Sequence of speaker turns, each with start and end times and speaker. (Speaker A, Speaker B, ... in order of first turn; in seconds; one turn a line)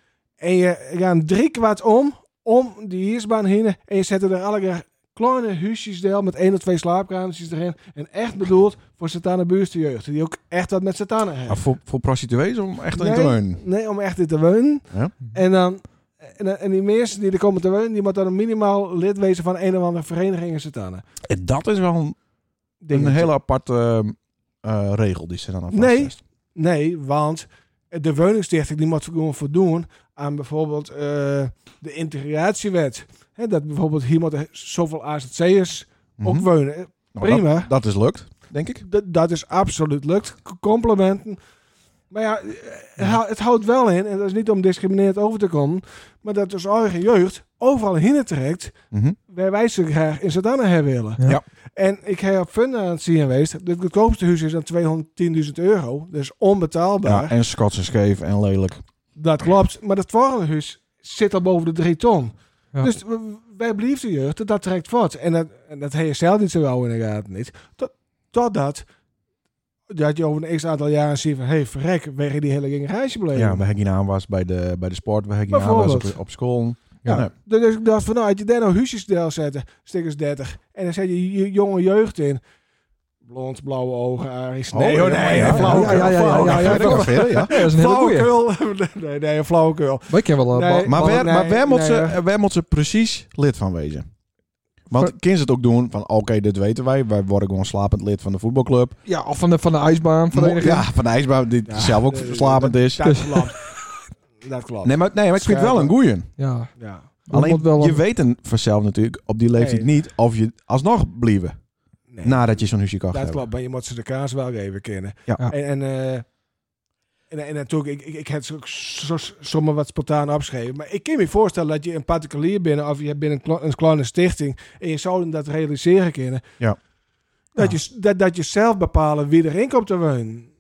Speaker A: 0.4-11.6
Speaker B: 11.5-13.6
Speaker A: 12.9-21.0
Speaker B: 21.2-22.2
Speaker A: 22.8-23.3
Speaker B: 22.9-26.2
Speaker A: 25.7-37.7
Speaker B: 36.2-36.5
Speaker B: 37.1-38.8
Speaker A: 38.8-41.4
Speaker A: 42.1-48.7
Speaker B: 48.9-49.2
Speaker A: 49.3-51.2
Speaker A: 51.8-57.3
Speaker B: 57.0-58.8
Speaker A: 59.1-68.8
Speaker A: 69.9-73.6
Speaker B: 73.3-77.3
Speaker A: 75.5-76.2
Speaker A: 77.0-82.4
Speaker A: 83.2-92.2
Speaker B: 84.7-87.5
Speaker C: 85.3-88.3
Speaker C: 90.1-91.2
Speaker B: 90.8-94.1
Speaker B: 94.9-98.9
Speaker C: 99.0-100.9
Speaker B: 100.3-103.2
Speaker A: 101.7-103.6
Speaker C: 103.1-103.4
Speaker A: 104.4-105.9
Speaker B: 104.8-106.3
Speaker C: 106.4-106.7
Speaker A: 106.8-107.1
Speaker C: 107.2-108.0
Speaker B: 107.3-111.5
Speaker A: 109.5-109.9
Speaker A: 112.1-116.2
Speaker B: 112.2-113.4
Speaker A: 117.3-126.4
Speaker A: 127.5-130.5